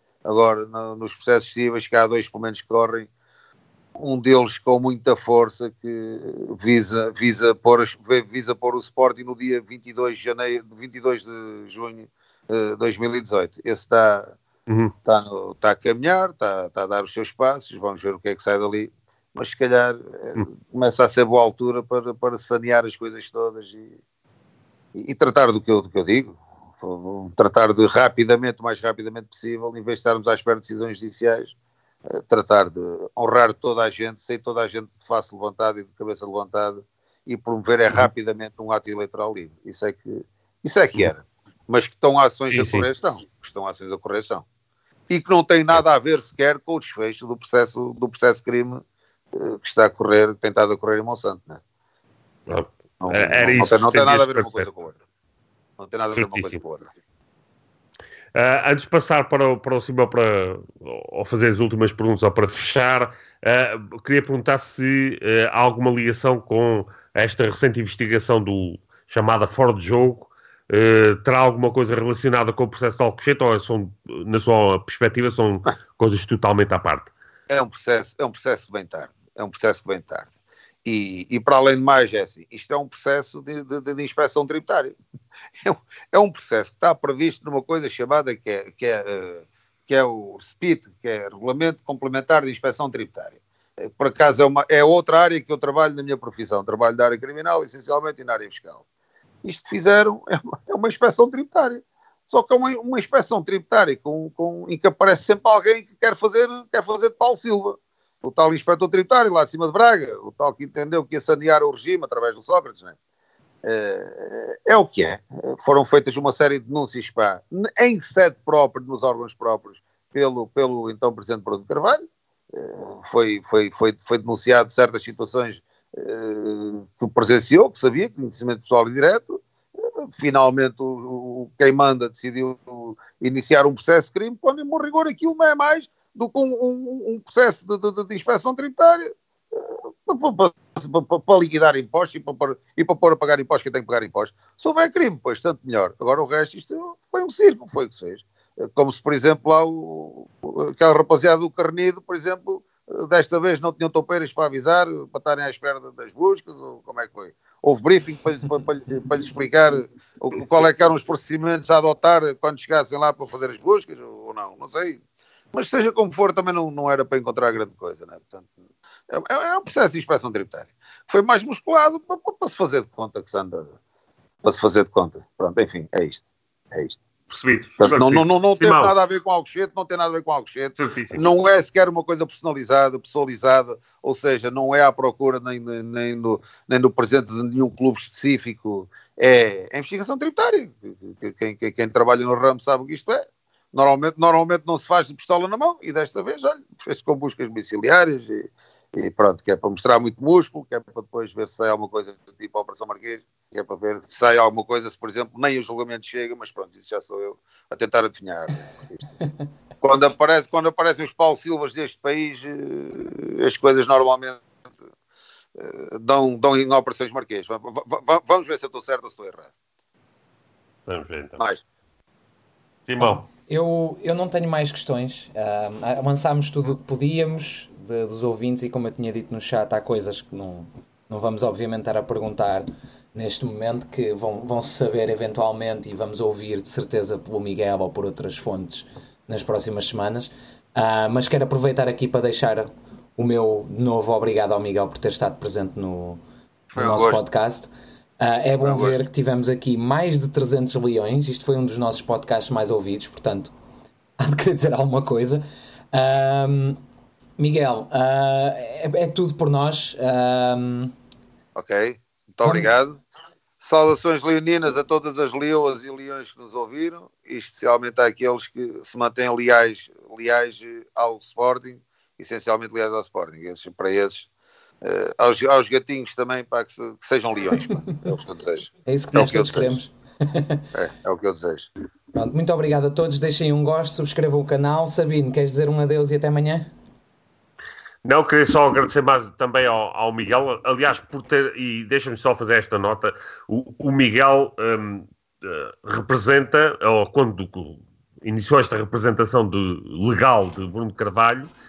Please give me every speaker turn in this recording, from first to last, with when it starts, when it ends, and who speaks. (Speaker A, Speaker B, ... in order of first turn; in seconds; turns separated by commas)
Speaker A: 0.2-3.1, Speaker A: 4.0-14.3, Speaker B: 14.7-14.9, Speaker A: 15.0-23.9, Speaker A: 24.9-31.5, Speaker A: 32.1-44.4, Speaker B: 42.5-42.9, Speaker A: 45.1-48.8, Speaker A: 49.3-51.6, Speaker B: 52.5-54.7, Speaker A: 53.0-55.0, Speaker A: 55.8-56.9, Speaker B: 56.1-56.6, Speaker B: 58.3-77.1, Speaker A: 77.5-80.3, Speaker A: 80.8-85.0, Speaker A: 85.6-98.8, Speaker A: 99.4-112.9, Speaker A: 113.6-165.0, Speaker A: 165.5-168.5, Speaker A: 169.1-173.7, Speaker A: 174.4-177.0, Speaker B: 177.3-178.9, Speaker A: 177.8-209.0, Speaker B: 180.8-181.3, Speaker C: 209.2-209.5, Speaker A: 209.8-214.5, Speaker A: 215.6-219.5, Speaker B: 220.9-221.4, Speaker A: 221.4-221.6, Speaker B: 222.8-223.2, Speaker C: 223.0-246.2, Speaker A: 246.7-247.2, Speaker C: 246.7-253.5, Speaker A: 248.6-249.0, Speaker C: 254.2-256.8, Speaker C: 257.4-260.9, Speaker A: 261.5-263.0, Speaker C: 262.4-262.7, Speaker A: 263.6-274.3, Speaker A: 274.8-279.7, Speaker C: 278.9-280.7, Speaker A: 280.7-281.7, Speaker C: 282.1-286.7, Speaker B: 288.0-301.5